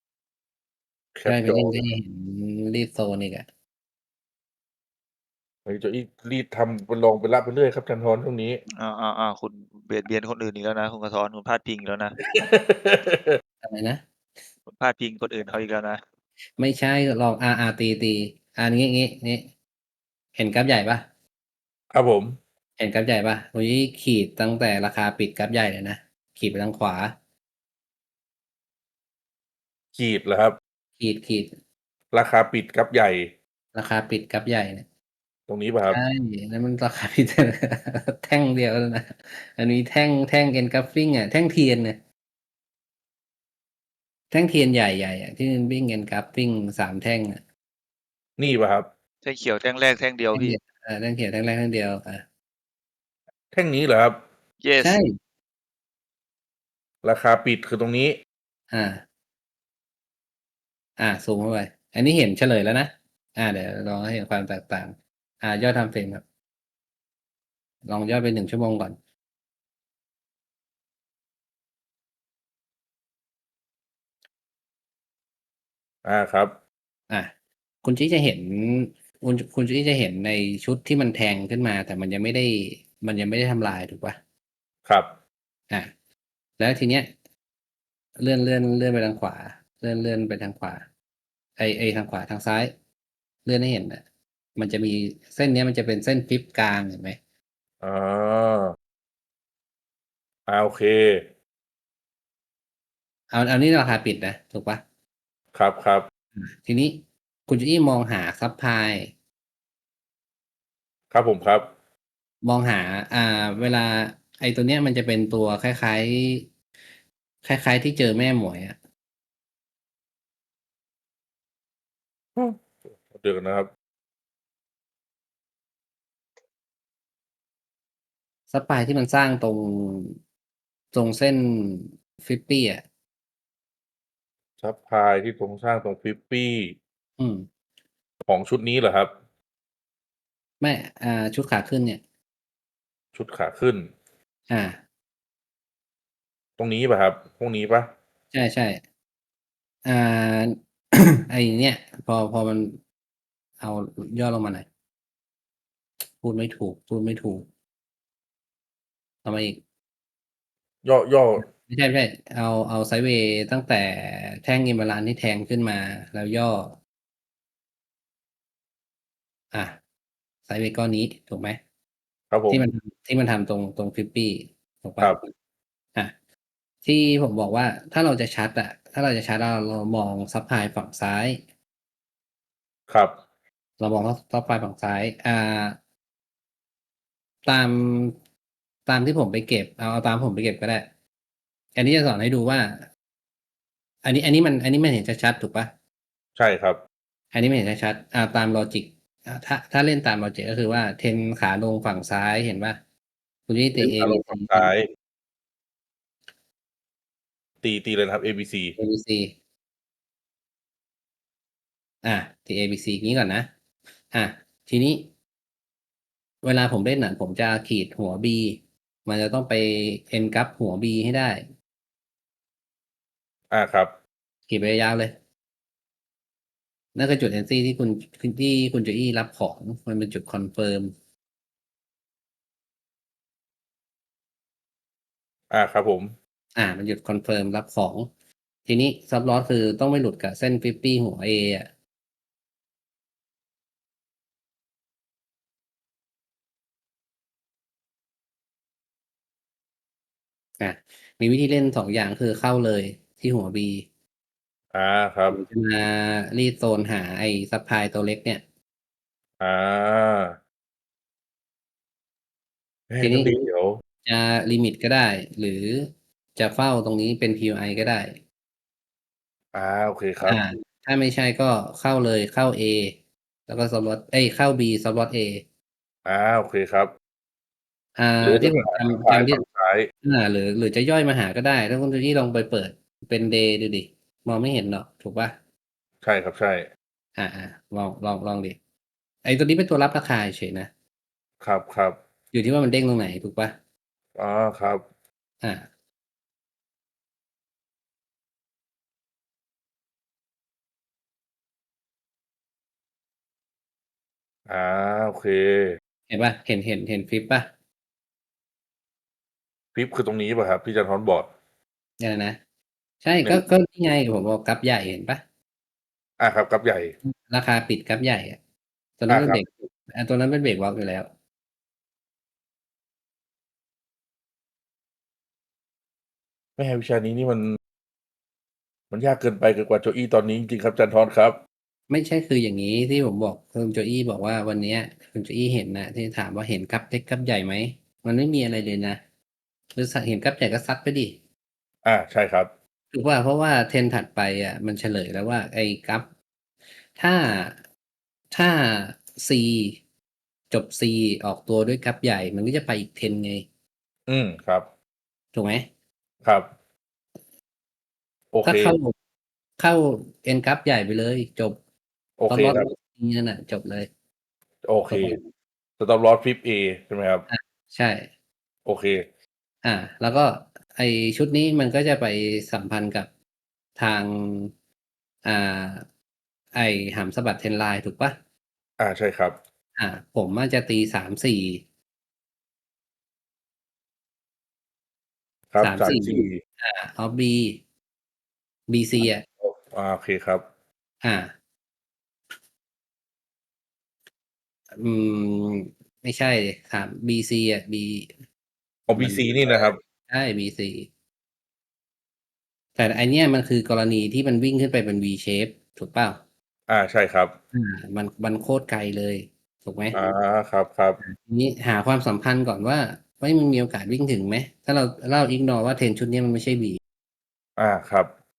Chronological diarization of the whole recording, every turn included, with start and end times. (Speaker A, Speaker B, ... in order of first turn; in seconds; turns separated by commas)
Speaker A: 1.1-1.8, Speaker B: 1.2-3.5, Speaker A: 5.7-8.6, Speaker C: 8.8-12.2, Speaker A: 12.2-13.4, Speaker B: 13.6-14.0, Speaker C: 14.7-16.0, Speaker B: 16.6-19.5, Speaker B: 20.4-21.0, Speaker A: 21.9-22.4, Speaker B: 22.8-27.1, Speaker A: 29.9-30.6, Speaker B: 31.0-31.5, Speaker A: 32.1-33.3, Speaker B: 33.7-34.8, Speaker A: 35.5-36.0, Speaker B: 35.9-42.0, Speaker B: 44.3-47.4, Speaker A: 48.4-48.9, Speaker C: 49.2-50.6, Speaker B: 50.3-52.2, Speaker A: 53.5-54.2, Speaker C: 54.6-55.0, Speaker B: 54.8-55.1, Speaker A: 57.0-58.1, Speaker B: 58.7-59.0, Speaker B: 61.0-66.2, Speaker B: 67.9-69.0, Speaker A: 76.0-76.5, Speaker B: 77.8-84.2, Speaker A: 84.8-85.1, Speaker B: 86.6-87.1, Speaker B: 88.2-90.8, Speaker B: 91.6-92.7, Speaker B: 93.5-94.0, Speaker B: 94.6-97.2, Speaker A: 97.8-98.7, Speaker A: 100.5-101.2, Speaker B: 103.3-104.8, Speaker A: 105.5-106.1, Speaker B: 106.4-109.1, Speaker A: 111.1-111.7, Speaker B: 112.4-116.5, Speaker B: 117.4-118.8, Speaker A: 122.3-123.7, Speaker B: 128.5-130.2, Speaker B: 130.9-132.8, Speaker A: 134.6-136.8, Speaker B: 137.2-137.5, Speaker A: 138.2-139.1, Speaker B: 140.6-142.0, Speaker A: 143.1-143.9, Speaker B: 144.5-144.8, Speaker A: 146.6-147.9, Speaker B: 148.3-148.8, Speaker B: 149.8-152.8, Speaker B: 153.6-154.7, Speaker B: 156.2-157.4, Speaker B: 159.2-159.6, Speaker A: 160.8-161.4, Speaker B: 161.4-166.8, Speaker B: 170.5-171.6, Speaker A: 172.3-172.6, Speaker B: 172.5-175.3, Speaker B: 176.8-181.4, Speaker A: 182.9-183.1, Speaker B: 183.8-185.8, Speaker B: 187.5-188.2, Speaker B: 188.9-190.9, Speaker B: 191.8-192.9, Speaker B: 194.0-195.7, Speaker A: 196.4-196.8, Speaker B: 197.3-202.8, Speaker B: 203.5-204.7, Speaker A: 203.8-204.9, Speaker A: 207.6-208.7, Speaker B: 208.8-209.3, Speaker B: 212.0-213.5, Speaker B: 214.1-215.1, Speaker B: 216.4-221.4, Speaker A: 223.5-223.9, Speaker B: 224.5-225.1, Speaker B: 226.9-230.9, Speaker A: 235.5-236.1, Speaker B: 236.6-238.1, Speaker B: 238.7-241.7, Speaker B: 250.6-253.8, Speaker A: 254.7-255.4, Speaker B: 255.3-258.4, Speaker A: 259.4-260.4, Speaker A: 262.9-263.8, Speaker B: 263.0-263.4, Speaker B: 264.0-268.2, Speaker A: 269.5-270.4, Speaker B: 270.2-273.0, Speaker B: 273.5-275.4, Speaker A: 276.1-276.9, Speaker B: 278.0-279.4, Speaker A: 278.2-279.9, Speaker B: 280.0-285.3, Speaker A: 286.0-286.7, Speaker B: 287.2-288.6, Speaker B: 289.2-290.7, Speaker A: 291.4-292.0, Speaker B: 292.3-293.5, Speaker A: 294.1-294.8, Speaker B: 295.4-295.7, Speaker A: 304.5-305.8, Speaker B: 306.1-307.5, Speaker A: 309.7-311.3, Speaker B: 312.0-312.4, Speaker B: 313.0-315.2, Speaker A: 316.2-316.9, Speaker B: 317.0-318.4, Speaker B: 319.0-321.1, Speaker A: 319.1-319.4, Speaker A: 326.6-327.6, Speaker A: 328.9-331.4, Speaker B: 331.9-339.0, Speaker B: 339.7-341.1, Speaker A: 341.8-342.5, Speaker B: 342.9-346.1, Speaker B: 346.9-347.6, Speaker B: 348.3-349.8, Speaker B: 350.5-353.4, Speaker A: 354.1-354.7, Speaker B: 355.3-355.6, Speaker A: 356.2-356.5, Speaker A: 358.3-358.8, Speaker B: 358.4-358.9, Speaker B: 359.6-361.6, Speaker A: 362.2-362.7, Speaker B: 362.3-363.9, Speaker A: 364.6-365.2, Speaker B: 364.9-365.2, Speaker A: 365.8-367.2, Speaker B: 367.3-368.1, Speaker A: 368.6-369.0, Speaker B: 369.6-373.1, Speaker B: 373.8-374.5, Speaker B: 375.2-375.9, Speaker B: 376.6-378.1, Speaker A: 378.8-379.4, Speaker B: 379.8-381.6, Speaker A: 385.5-386.4, Speaker B: 385.6-387.6, Speaker B: 388.7-389.2, Speaker A: 389.4-390.4, Speaker B: 391.0-391.3, Speaker B: 394.8-398.1, Speaker A: 398.9-399.8, Speaker B: 398.9-400.9, Speaker B: 402.8-406.2, Speaker A: 406.7-407.3, Speaker B: 407.5-410.0, Speaker A: 409.9-411.0, Speaker B: 411.0-416.8, Speaker A: 417.6-418.1